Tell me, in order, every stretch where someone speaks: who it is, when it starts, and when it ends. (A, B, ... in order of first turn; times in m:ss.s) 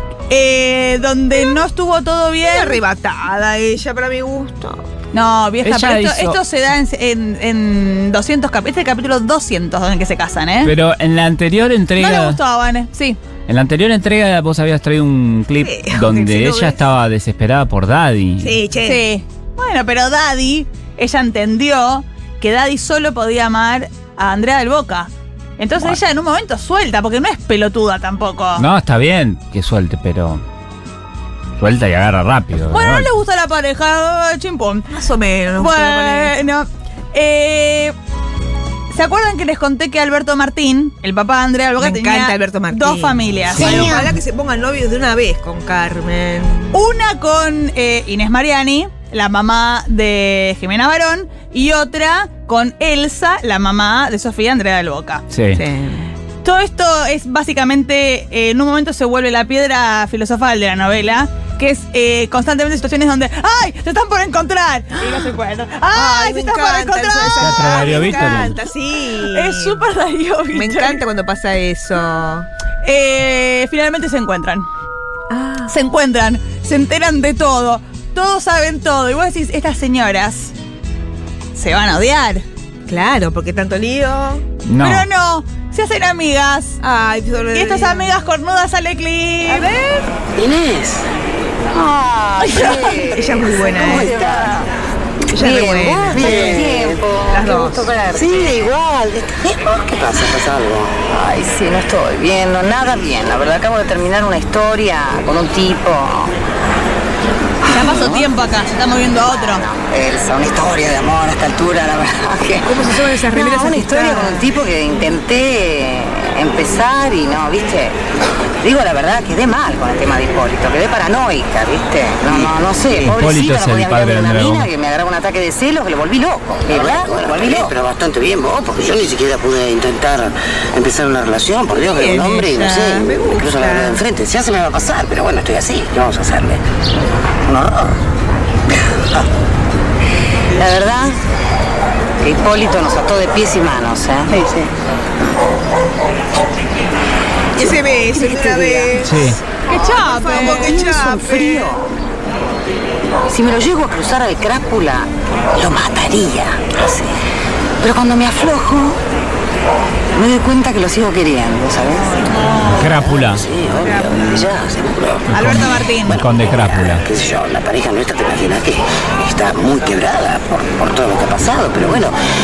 0:00.3-0:02.8 A
0:02.4-0:04.8 B
0:05.1-0:10.7 A
0:05.6-0:06.4 C
0:10.6-0:12.4 C
0:12.0-0:13.2 A
0:13.5-0:18.6 C
0:15.6-0:16.8 B
0:18.4-0:19.0 B
0:18.8-0:28.6 A
0:28.6-0:30.4 C
0:31.6-0:33.1 C
0:32.7-0:34.9 A
0:34.9-0:36.4 B
0:35.6-0:37.9 A
0:38.9-0:44.1 A
0:41.8-0:46.7 B
0:43.5-0:44.1 C
0:46.7-0:55.2 A
0:55.3-0:55.6 C
0:55.5-0:56.1 B
0:56.4-1:08.2 A
1:05.9-1:09.8 B
1:07.4-1:08.6 C
1:09.3-1:11.0 A
1:10.5-1:12.5 B
1:12.8-1:14.7 A
1:15.3-1:15.7 B
1:15.7-1:20.5 A
1:21.5-1:22.4 A
1:22.9-1:24.4 B
1:24.6-1:25.0 C
1:24.8-1:26.8 A
1:26.8-1:28.1 B
1:27.5-1:29.7 A
1:29.4-1:30.1 B
1:30.4-1:31.0 D
1:31.7-1:34.6 E
1:32.4-1:32.9 A
1:33.0-1:34.2 B
1:35.3-1:37.9 B
1:35.3-1:38.7 E
1:36.1-1:36.9 D
1:38.1-1:40.9 D
1:41.1-1:46.3 E
1:47.6-1:48.3 E
1:47.7-1:49.6 A
1:49.2-1:52.7 E
1:52.6-1:54.5 B
1:53.3-1:58.0 E
1:58.6-2:07.7 E
2:02.3-2:03.1 D
2:03.0-2:04.7 C
2:06.6-2:16.6 D
2:11.8-2:14.0 B
2:17.5-2:17.9 D
2:20.5-2:21.2 E
2:22.2-2:24.6 E
2:27.6-2:31.8 B
2:28.1-2:28.9 E
2:29.0-2:29.4 C
2:29.7-2:30.8 A
2:30.4-2:31.8 E
2:33.3-2:35.1 E
2:35.5-2:37.1 D
2:37.8-2:39.0 E
2:40.1-2:42.3 E
2:42.1-2:42.7 B
2:42.6-2:43.4 C
2:43.2-2:45.3 D
2:43.8-2:44.6 B
2:45.3-2:47.0 C
2:45.3-2:46.2 A
2:46.5-2:52.2 D